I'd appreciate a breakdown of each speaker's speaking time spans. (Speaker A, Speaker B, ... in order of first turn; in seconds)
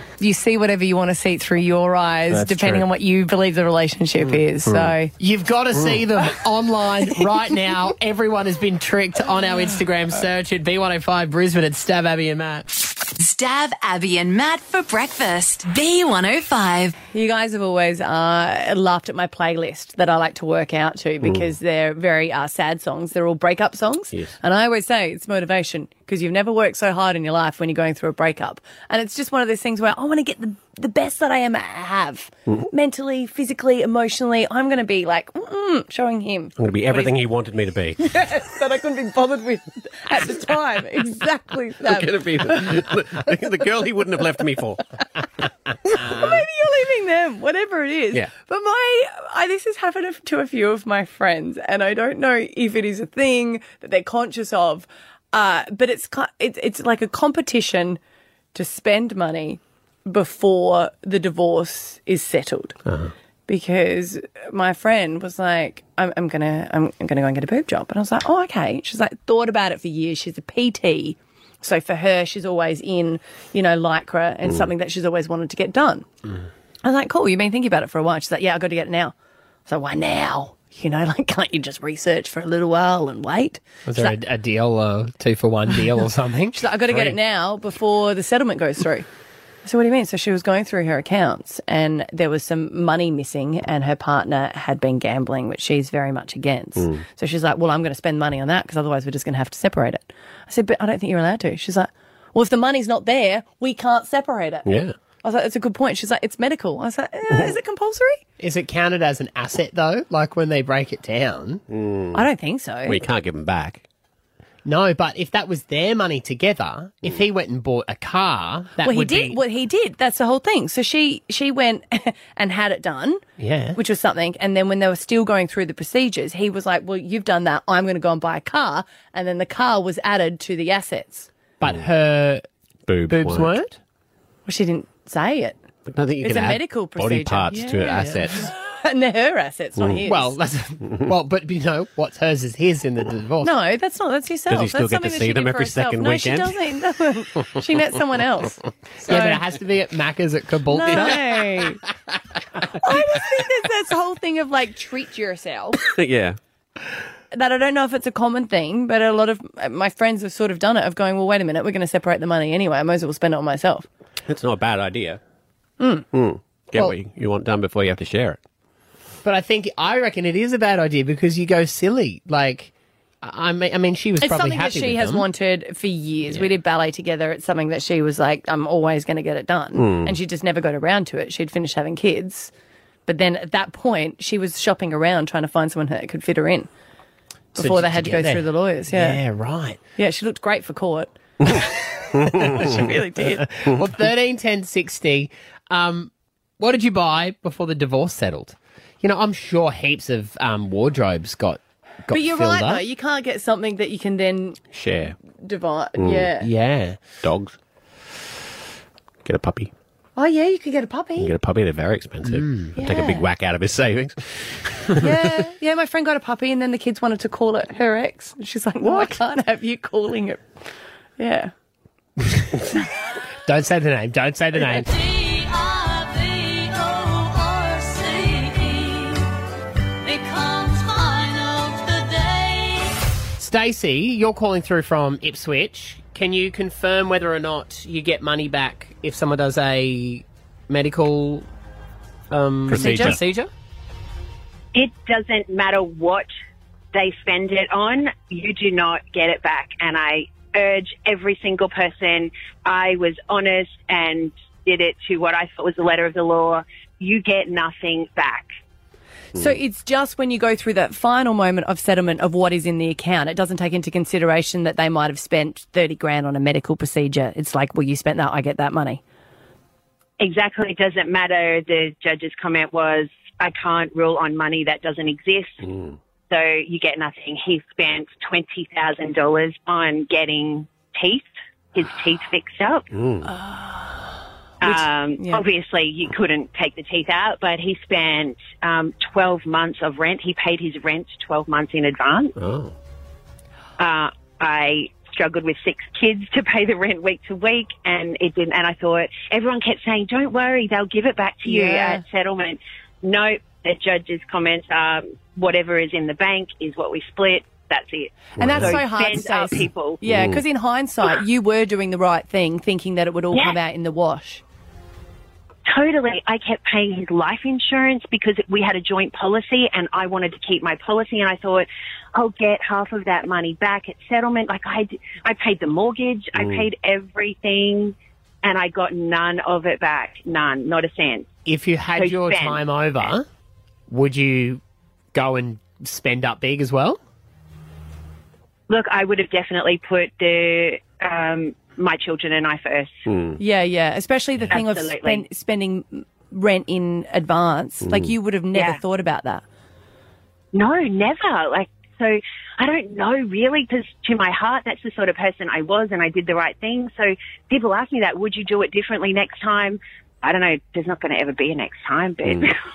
Speaker A: 0.2-5.1, 17.1-37.2, 38.0-42.9, 45.9-58.0, 58.5-62.8, 63.5-76.1, 76.8-79.1, 79.7-84.2, 86.5-89.1, 89.6-104.7, 105.2-108.2, 112.1-113.0, 118.8-123.2, 123.8-131.3, 134.5-135.6, 136.2-140.4, 143.4-149.4, 150.7-151.8, 152.8-155.8, 157.3-163.9, 165.8-166.1, 174.2-182.5, 183.1-186.7, 187.5-189.2, 190.0-191.6, 192.3-193.5, 202.1-204.6, 205.4-206.5, 210.2-211.3, 212.8-213.2, 215.0-220.4, 221.2-221.5, 242.7-243.2, 259.4-269.0, 283.3-284.1, 284.6-285.5, 301.4-302.0, 308.4-314.4, 343.4-349.4
Speaker B: 2.3-2.9, 4.7-4.9, 36.6-38.0, 41.8-45.0, 45.9-46.3, 62.9-63.1, 96.8-97.0, 104.7-105.0, 111.7-112.2, 112.8-113.8, 132.9-133.6, 135.9-138.5, 144.5-146.6, 155.9-156.4, 164.3-165.2, 166.1-168.4, 179.8-180.2, 204.7-205.2, 206.0-206.3, 207.2-207.6, 209.2-209.7, 211.2-215.3, 242.7-243.2, 275.7-276.0, 282.9-283.3, 292.4-292.7, 308.4-308.8, 310.1-310.4, 326.4-326.7, 343.1-343.4
Speaker C: 5.2-12.7, 83.9-87.2, 108.4-111.6, 114.7-119.4, 123.4-123.8, 131.6-132.4, 133.1-133.8, 140.1-143.5, 149.0-151.2, 169.2-175.2, 187.6-189.8, 193.4-202.9, 206.4-207.0, 212.2-212.6, 223.5-224.9, 233.4-241.5, 242.3-243.5, 331.4-333.3, 333.9-334.6, 335.1-337.0
Speaker D: 13.2-17.0
Speaker E: 244.7-246.3, 246.9-258.5, 270.2-275.7, 276.3-282.9, 284.6-292.4, 293.8-310.0, 313.3-313.6, 315.7-331.3, 331.9-332.6, 338.7-343.1, 344.5-345.3, 348.5-348.8, 350.5-362.6